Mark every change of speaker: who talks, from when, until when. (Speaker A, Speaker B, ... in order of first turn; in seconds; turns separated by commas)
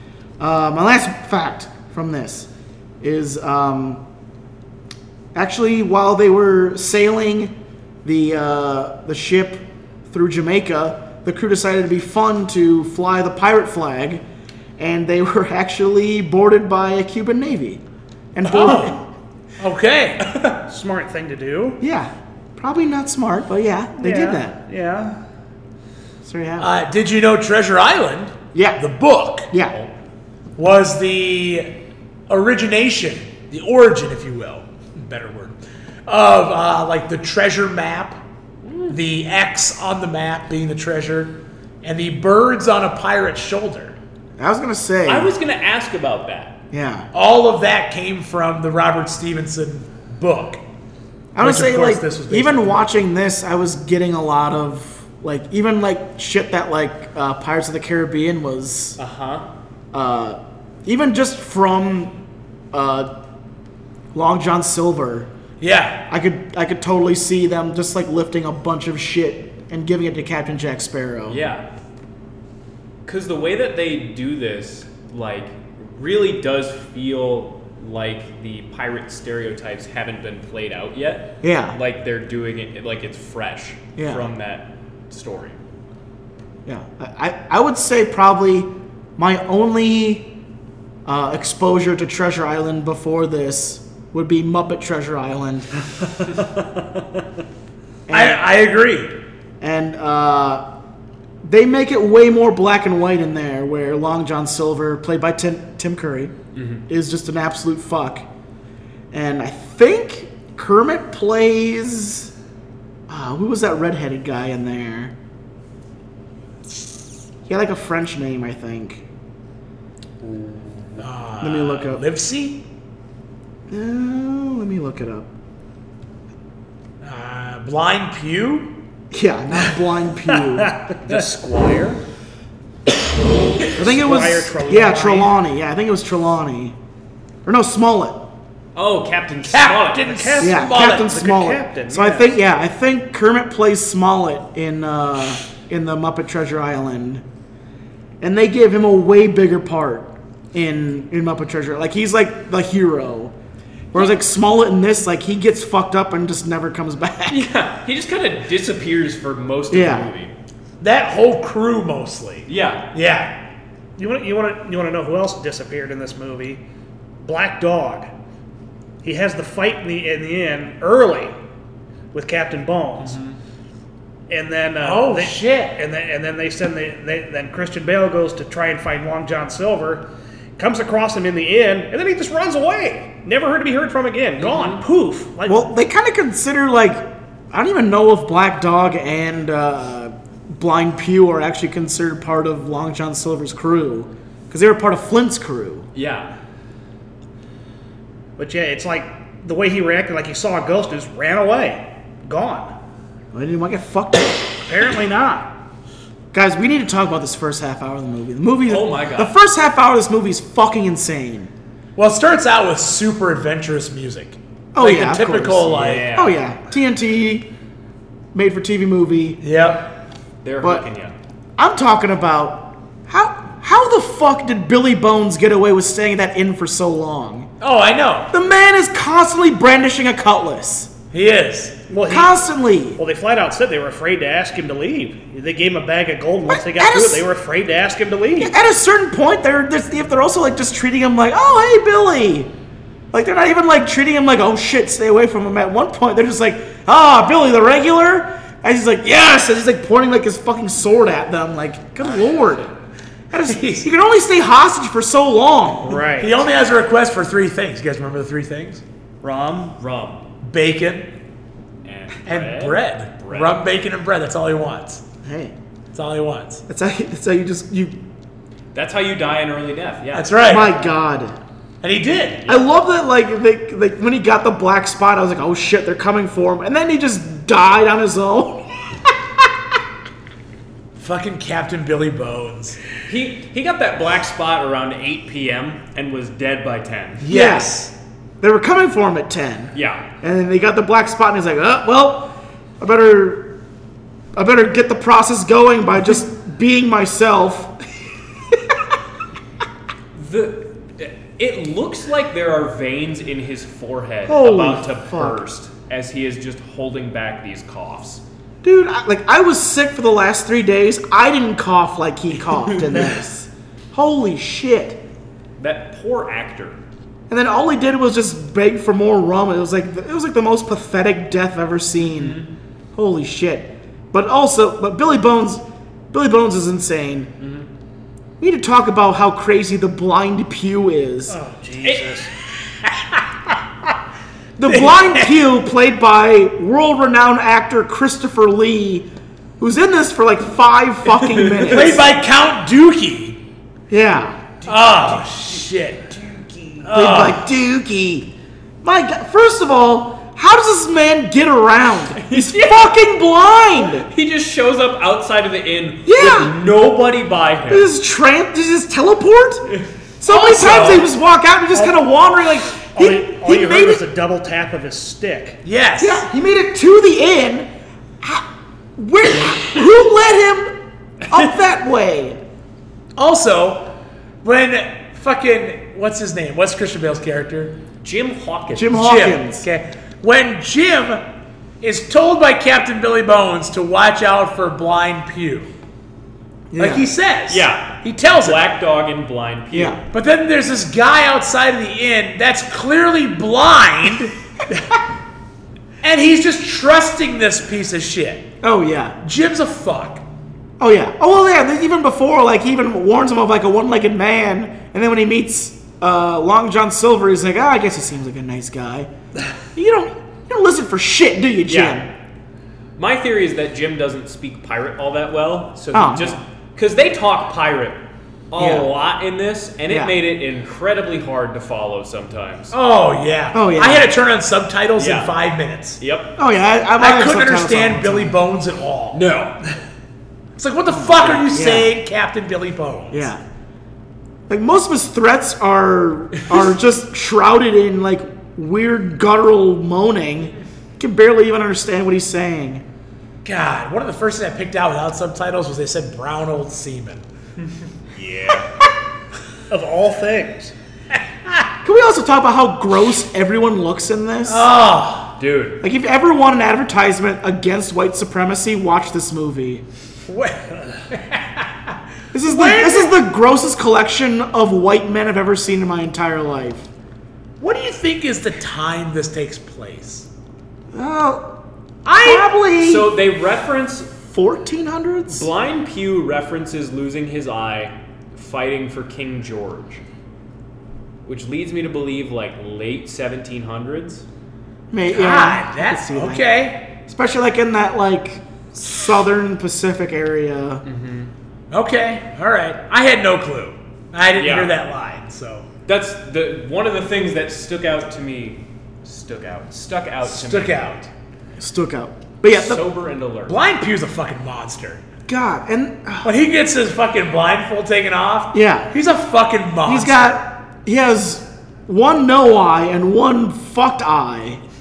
Speaker A: 0.4-2.5, Speaker A: 3.0-4.0, Speaker A: 5.3-14.2, Speaker A: 14.8-17.8, Speaker A: 18.3-19.0, Speaker B: 18.4-19.0, Speaker B: 19.6-20.2, Speaker C: 20.6-21.8, Speaker A: 21.8-24.6, Speaker C: 24.0-25.2, Speaker A: 26.2-26.7, Speaker B: 26.6-29.5, Speaker A: 28.5-28.8, Speaker A: 29.5-29.8, Speaker B: 30.6-31.7, Speaker B: 32.3-38.2, Speaker D: 38.6-39.0, Speaker B: 38.9-44.0, Speaker A: 44.4-45.3, Speaker D: 45.0-46.6, Speaker A: 46.7-47.1, Speaker B: 47.1-50.6, Speaker A: 51.3-59.0, Speaker B: 51.4-53.0, Speaker D: 59.0-59.5, Speaker A: 59.9-62.1, Speaker A: 62.7-63.1, Speaker A: 64.1-65.3, Speaker B: 65.6-66.0, Speaker A: 66.1-71.4, Speaker D: 71.3-71.6, Speaker D: 73.0-85.6, Speaker A: 81.4-81.8, Speaker A: 84.0-84.3, Speaker A: 86.7-90.3, Speaker A: 91.0-95.7, Speaker C: 96.3-97.0, Speaker A: 98.1-98.4, Speaker B: 98.1-99.1, Speaker A: 99.6-100.7, Speaker A: 101.4-106.3, Speaker D: 106.5-106.8, Speaker A: 106.9-108.2, Speaker A: 109.1-112.3, Speaker A: 113.1-115.1, Speaker A: 117.5-119.0, Speaker D: 120.2-121.0, Speaker B: 121.0-122.7, Speaker A: 121.4-122.0, Speaker A: 123.7-125.3, Speaker B: 127.0-128.8, Speaker A: 129.1-130.8, Speaker C: 130.6-131.5, Speaker D: 131.1-132.0, Speaker C: 133.7-135.3, Speaker A: 133.8-136.7, Speaker A: 137.4-138.2, Speaker D: 138.7-140.3, Speaker B: 139.5-141.1, Speaker C: 140.0-142.3, Speaker A: 140.4-147.2, Speaker A: 148.2-153.3, Speaker A: 153.9-157.5, Speaker D: 157.3-160.3, Speaker A: 159.7-160.1, Speaker B: 160.8-163.4, Speaker D: 162.5-162.9, Speaker C: 164.0-166.6, Speaker C: 167.2-168.1, Speaker C: 169.0-171.3, Speaker C: 172.1-173.2, Speaker C: 174.3-185.7, Speaker B: 174.8-175.8, Speaker D: 184.4-184.8, Speaker A: 185.5-195.9, Speaker D: 195.9-196.3, Speaker C: 198.4-202.7, Speaker A: 203.3-204.6, Speaker C: 204.6-205.5, Speaker A: 206.3-211.5, Speaker D: 208.7-209.3, Speaker B: 211.9-216.1, Speaker A: 214.7-217.5, Speaker D: 215.7-216.4, Speaker A: 218.3-219.4, Speaker B: 219.4-219.9, Speaker D: 220.4-221.1, Speaker A: 220.6-220.9, Speaker A: 221.6-227.5, Speaker B: 227.6-228.3, Speaker A: 228.3-230.9, Speaker B: 231.1-231.8, Speaker C: 231.9-232.3, Speaker A: 232.1-233.0, Speaker C: 233.0-238.6, Speaker A: 236.5-237.2, Speaker A: 238.4-242.5, Speaker A: 243.1-252.7, Speaker D: 252.0-252.7, Speaker A: 253.3-256.0, Speaker B: 253.4-253.8, Speaker C: 255.8-256.4, Speaker B: 256.1-258.8, Speaker C: 259.2-259.8, Speaker D: 259.8-260.3, Speaker B: 260.4-261.1, Speaker D: 261.8-263.6, Speaker B: 262.2-265.0, Speaker A: 265.2-265.5, Speaker B: 265.9-266.6, Speaker A: 266.7-268.0, Speaker D: 268.7-270.4, Speaker B: 270.1-270.7, Speaker A: 270.4-271.4, Speaker B: 271.8-272.4, Speaker A: 272.5-278.7, Speaker B: 280.9-282.8, Speaker D: 283.0-287.3, Speaker B: 287.2-287.9, Speaker A: 287.3-287.9, Speaker A: 288.4-293.6, Speaker D: 289.7-290.0, Speaker A: 294.3-297.7, Speaker D: 300.1-308.2, Speaker A: 304.3-305.4, Speaker A: 308.6-315.0, Speaker D: 312.6-313.1, Speaker D: 315.6-316.8, Speaker A: 317.3-322.4, Speaker D: 322.0-322.5, Speaker A: 322.9-327.3, Speaker D: 327.4-327.7, Speaker A: 328.4-331.4, Speaker C: 331.3-332.3, Speaker D: 331.8-332.2, Speaker A: 334.6-339.1, Speaker B: 334.7-335.3, Speaker A: 339.6-342.0, Speaker D: 341.2-341.9, Speaker B: 341.6-343.4, Speaker A: 343.9-344.4, Speaker D: 344.6-347.3, Speaker B: 344.6-346.1, Speaker B: 346.8-347.4, Speaker A: 346.9-348.3, Speaker A: 348.8-354.1, Speaker D: 352.1-352.9, Speaker D: 353.8-357.9, Speaker A: 356.0-356.5, Speaker A: 357.7-364.0, Speaker D: 359.7-361.0, Speaker B: 360.6-361.0, Speaker C: 361.7-362.0, Speaker C: 362.9-365.6, Speaker B: 365.6-366.3, Speaker A: 366.0-367.7, Speaker A: 369.0-372.4, Speaker B: 373.1-373.9, Speaker B: 374.4-377.8, Speaker D: 378.0-379.0, Speaker A: 378.7-379.6, Speaker B: 378.9-381.2, Speaker B: 381.8-385.7, Speaker A: 386.7-387.1, Speaker B: 386.8-388.6, Speaker D: 387.5-390.0, Speaker A: 389.7-390.0, Speaker B: 390.1-394.3, Speaker B: 396.0-398.5, Speaker A: 398.6-399.2, Speaker B: 399.2-400.2, Speaker A: 400.8-409.1, Speaker A: 409.7-412.1, Speaker D: 411.7-412.0, Speaker D: 413.0-422.7, Speaker A: 415.9-416.4, Speaker A: 418.6-418.9, Speaker A: 419.9-420.1, Speaker B: 422.7-426.0, Speaker A: 423.5-424.1, Speaker D: 425.0-425.4, Speaker D: 426.0-426.3, Speaker A: 426.4-428.4, Speaker B: 427.0-429.2, Speaker D: 429.1-429.6, Speaker B: 430.6-433.3, Speaker A: 430.9-431.9, Speaker A: 433.1-433.4, Speaker A: 434.5-442.8, Speaker B: 443.4-447.2, Speaker D: 448.1-448.7, Speaker C: 449.7-450.7, Speaker A: 451.8-454.7, Speaker B: 454.4-455.4, Speaker D: 455.4-455.8, Speaker A: 455.8-459.8, Speaker B: 460.2-461.9, Speaker A: 462.3-466.9, Speaker B: 462.4-463.2, Speaker B: 467.6-470.3, Speaker A: 470.9-471.5, Speaker B: 472.0-472.5, Speaker A: 472.2-473.1, Speaker D: 472.7-474.1, Speaker A: 474.2-475.5, Speaker D: 475.3-480.0, Speaker D: 481.2-484.2, Speaker A: 484.9-486.4, Speaker B: 485.1-486.9, Speaker A: 487.1-490.8, Speaker D: 490.8-491.3, Speaker B: 491.7-495.7, Speaker D: 494.4-494.7, Speaker D: 495.9-500.9, Speaker B: 500.2-501.1, Speaker A: 501.6-502.8, Speaker D: 502.5-503.6, Speaker B: 503.5-505.0, Speaker A: 505.3-506.3, Speaker B: 506.2-510.4, Speaker A: 508.5-508.9, Speaker A: 509.8-514.6